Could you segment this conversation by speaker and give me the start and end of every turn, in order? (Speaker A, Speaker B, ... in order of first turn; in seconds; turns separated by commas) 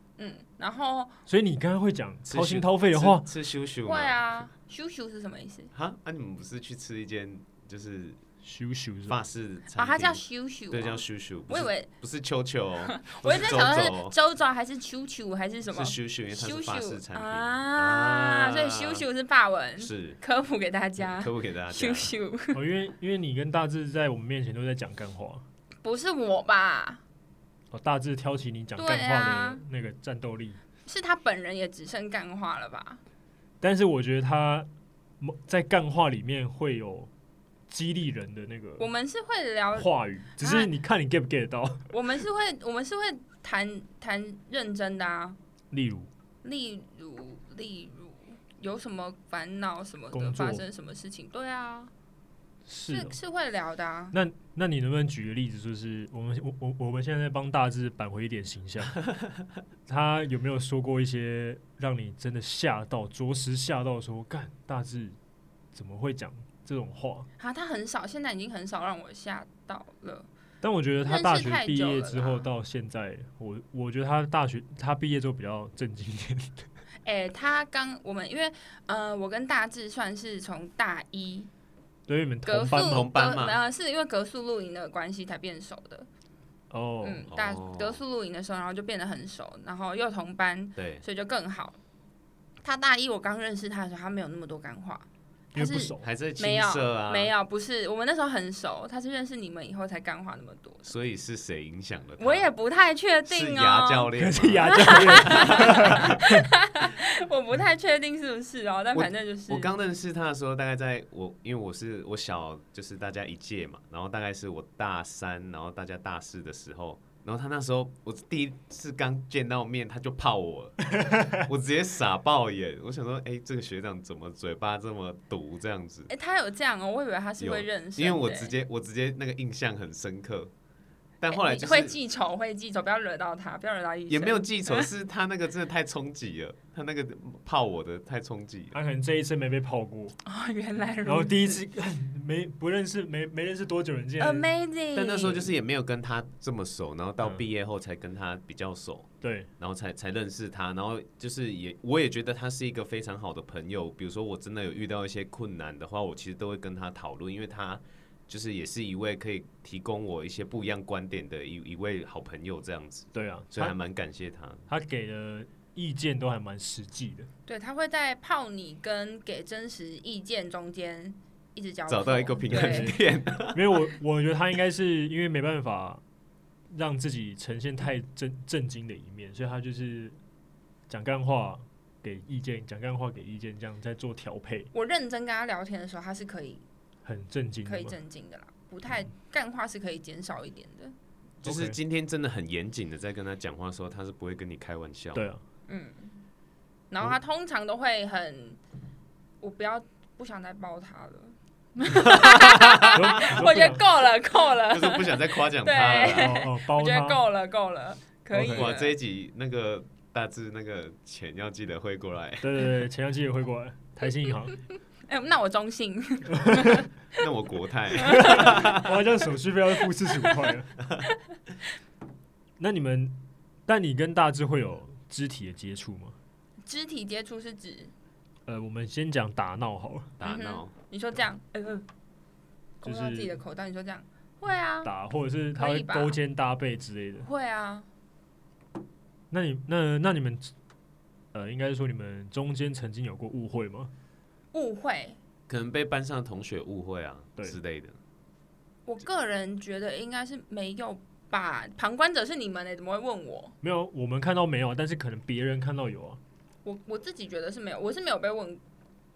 Speaker A: 0.2-1.2, Speaker B: 1.3-3.3, Speaker C: 2.2-4.5, Speaker A: 3.9-5.7, Speaker C: 5.7-8.2, Speaker B: 8.4-9.2, Speaker C: 9.1-14.1, Speaker A: 9.8-11.9, Speaker A: 12.9-22.6, Speaker C: 15.7-19.0, Speaker C: 19.8-20.2, Speaker C: 21.0-22.1, Speaker B: 22.5-25.4, Speaker A: 25.8-27.0, Speaker B: 27.7-30.6, Speaker A: 28.8-29.6, Speaker A: 30.9-33.0, Speaker B: 33.6-34.7, Speaker B: 35.2-37.1, Speaker B: 37.7-38.9, Speaker A: 38.8-40.7, Speaker B: 39.7-41.9, Speaker A: 41.9-45.4, Speaker B: 45.7-46.1, Speaker A: 46.4-51.9, Speaker B: 50.1-50.6, Speaker B: 52.7-53.1, Speaker A: 52.9-54.1, Speaker B: 54.1-59.0, Speaker B: 59.9-65.2, Speaker B: 65.7-67.3, Speaker A: 67.4-70.3, Speaker B: 70.6-76.6, Speaker A: 71.0-72.5, Speaker A: 77.0-81.5, Speaker B: 82.1-83.0, Speaker A: 82.5-86.1, Speaker C: 82.8-83.6, Speaker B: 86.7-87.3, Speaker A: 87.0-91.8, Speaker C: 87.3-88.0, Speaker C: 90.8-91.0, Speaker A: 92.6-100.9, Speaker B: 95.5-96.0, Speaker C: 96.0-97.3, Speaker C: 100.8-102.5, Speaker A: 102.2-104.1, Speaker C: 103.2-106.1, Speaker B: 104.2-106.5, Speaker A: 104.7-109.7, Speaker C: 108.9-126.1, Speaker B: 121.0-121.4, Speaker A: 126.1-128.5, Speaker C: 127.4-130.5, Speaker C: 131.2-132.0, Speaker A: 131.3-134.9, Speaker C: 134.1-138.8, Speaker B: 138.7-140.2, Speaker A: 140.2-141.5, Speaker B: 141.0-144.5, Speaker A: 144.2-145.5, Speaker C: 144.9-164.7, Speaker B: 149.2-149.5, Speaker B: 163.1-163.8, Speaker B: 164.7-167.3, Speaker A: 167.5-172.9, Speaker C: 171.9-173.7, Speaker B: 172.5-173.0, Speaker B: 173.5-176.0, Speaker B: 176.7-180.2, Speaker B: 180.9-184.7, Speaker A: 184.7-186.6, Speaker B: 187.0-188.0, Speaker A: 187.6-190.9, Speaker C: 191.4-195.2, Speaker B: 191.4-191.8, Speaker B: 195.1-195.4, Speaker A: 195.7-196.2, Speaker A: 196.9-198.6, Speaker A: 199.4-208.9, Speaker C: 201.9-203.4, Speaker B: 202.9-203.8, Speaker C: 204.4-206.4, Speaker B: 206.0-207.2, Speaker B: 208.3-208.7, Speaker C: 208.5-212.6, Speaker B: 212.4-214.6, Speaker A: 215.1-217.2, Speaker B: 216.3-216.8, Speaker C: 217.2-218.9, Speaker A: 217.9-218.5, Speaker B: 218.1-220.7, Speaker B: 222.6-226.2, Speaker A: 226.7-227.9, Speaker B: 228.5-230.1, Speaker C: 230.2-230.7, Speaker A: 230.2-231.8, Speaker A: 232.8-234.9, Speaker B: 232.8-233.4, Speaker B: 234.8-237.3, Speaker A: 235.6-236.2, Speaker A: 237.2-237.9, Speaker B: 239.3-240.5, Speaker B: 241.3-243.9, Speaker A: 244.5-245.2, Speaker C: 245.5-248.0, Speaker A: 248.9-253.6, Speaker B: 253.6-256.2, Speaker A: 256.6-258.6